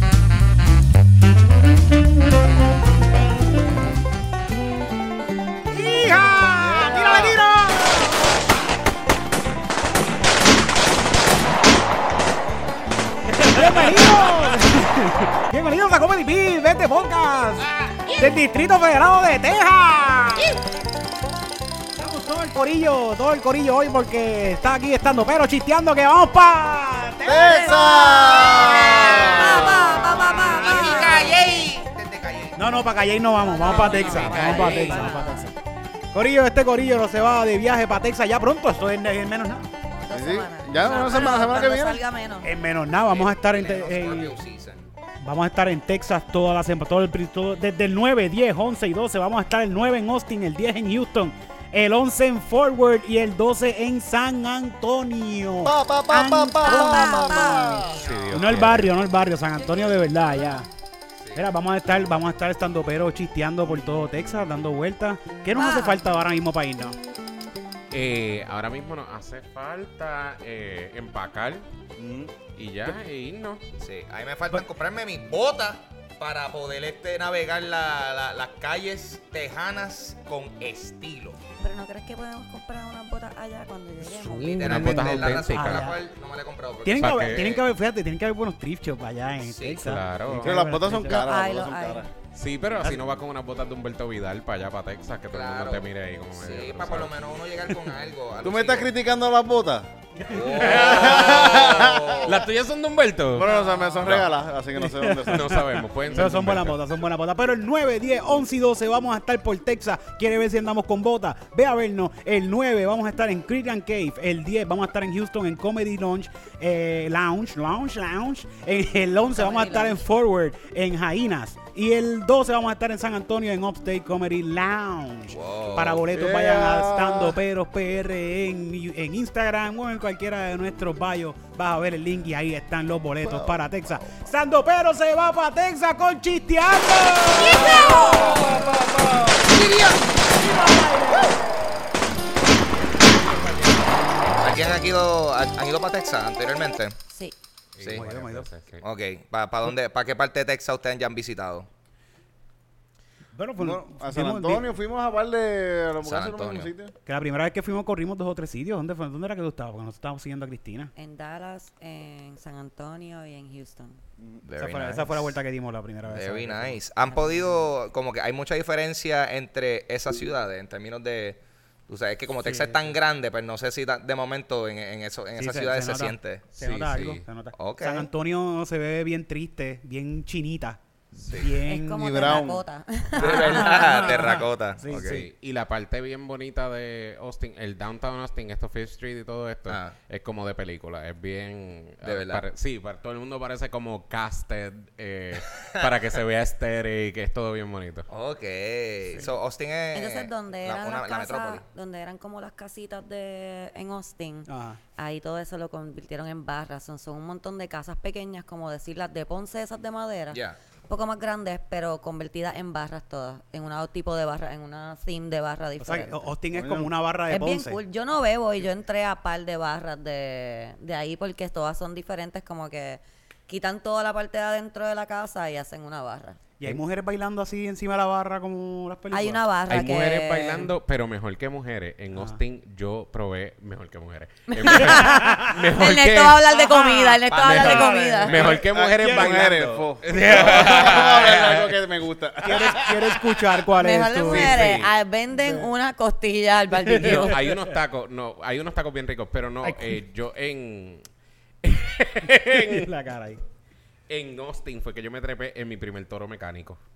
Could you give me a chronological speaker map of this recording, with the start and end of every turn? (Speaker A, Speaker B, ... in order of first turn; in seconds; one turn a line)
Speaker A: 5.7-8.4
Speaker B: 6.5-7.4
Speaker A: 13.4-20.6
Speaker C: 17.9-18.3
Speaker A: 21.9-28.0
Speaker B: 27.2-30.2
Speaker D: 27.4-31.3
Speaker C: 28.1-32.6
Speaker A: 29.7-31.3
Speaker A: 32.6-35.5
Speaker D: 33.4-35.5
Speaker E: 33.9-34.9
Speaker C: 33.9-35.1
Speaker A: 36.1-39.7
Speaker D: 39.9-42.5
Speaker B: 40.1-42.0
Speaker A: 40.9-41.5
Speaker A: 42.4-44.4
Speaker C: 43.0-44.9
Speaker A: 45.2-57.7
Speaker B: 55.6-58.0
Speaker D: 56.6-58.0
Speaker C: 57.8-58.7
Speaker E: 57.9-58.9
Speaker A: 58.3-60.7
Speaker C: 61.2-61.5
Speaker A: 61.3-67.0
Speaker D: 65.5-66.0
Speaker E: 67.9-71.7
Speaker B: 72.0-72.3
Speaker E: 72.5-73.6
Speaker C: 73.8-81.4
Speaker D: 81.6-85.0
Speaker A: 84.0-86.0
Speaker C: 84.6-87.6
Speaker E: 84.6-85.9
Speaker A: 86.8-91.3
Speaker E: 87.0-87.6
Speaker C: 89.5-89.9
Speaker E: 89.8-90.6
Speaker B: 90.4-92.1
Speaker D: 91.0-92.1
Speaker E: 92.3-97.9
Speaker A: 92.8-93.1
Speaker C: 95.3-98.9
Speaker B: 98.4-99.9
Speaker A: 100.2-101.3
Speaker C: 100.3-102.5
Speaker E: 100.5-103.5
Speaker B: 100.8-102.2
Speaker B: 103.3-106.3
Speaker D: 103.4-104.1
Speaker E: 104.0-104.3
Speaker A: 104.8-138.6
Speaker E: 105.2-106.8
Speaker D: 119.3-120.0
Speaker C: 125.3-126.1
Speaker B: 126.1-127.4
Speaker C: 137.3-140.2
Speaker A: 140.3-141.4
Speaker C: 141.1-141.4
Speaker A: 143.0-143.9
Speaker C: 144.4-147.0
Speaker E: 147.8-148.8
Speaker C: 147.8-148.1
Speaker A: 147.9-148.5
Speaker C: 148.8-151.7
Speaker A: 153.3-154.7
Speaker B: 153.6-156.9
Speaker C: 156.0-156.7
Speaker A: 157.1-160.9
Speaker D: 161.0-164.0
Speaker C: 164.4-165.3
Speaker A: 164.6-166.8
Speaker C: 166.1-176.4
Speaker A: 172.4-172.9
Speaker A: 175.4-180.8
Speaker E: 176.6-177.2
Speaker C: 177.6-178.1
Speaker E: 181.2-181.5
Speaker C: 181.2-181.5
Speaker A: 181.4-182.4
Speaker D: 181.7-184.2
Speaker B: 181.9-182.7
Speaker C: 183.2-185.2
Speaker A: 183.2-185.3
Speaker E: 184.9-198.1
Speaker C: 189.7-190.0
Speaker C: 192.0-192.4
Speaker C: 195.6-195.9
Speaker C: 198.1-201.6
Speaker D: 199.9-216.3
Speaker A: 204.5-204.8
Speaker C: 210.3-210.6
Speaker A: 215.8-217.8
Speaker B: 216.5-216.9
Speaker D: 217.3-226.4
Speaker A: 226.6-229.4
Speaker D: 229.1-230.7
Speaker E: 229.7-236.4
Speaker A: 232.1-232.4
Speaker D: 234.5-238.4
Speaker A: 234.7-235.6
Speaker A: 236.5-239.5
Speaker C: 237.3-238.5
Speaker E: 237.4-241.7
Speaker B: 238.4-243.2
Speaker C: 240.3-241.2
Speaker A: 242.4-245.7
Speaker D: 243.8-247.4
Speaker B: 244.3-244.7
Speaker A: 246.7-247.8
Speaker E: 247.0-251.0
Speaker A: 249.6-250.0
Speaker E: 251.6-252.9
Speaker A: 252.4-253.4
Speaker E: 254.1-256.8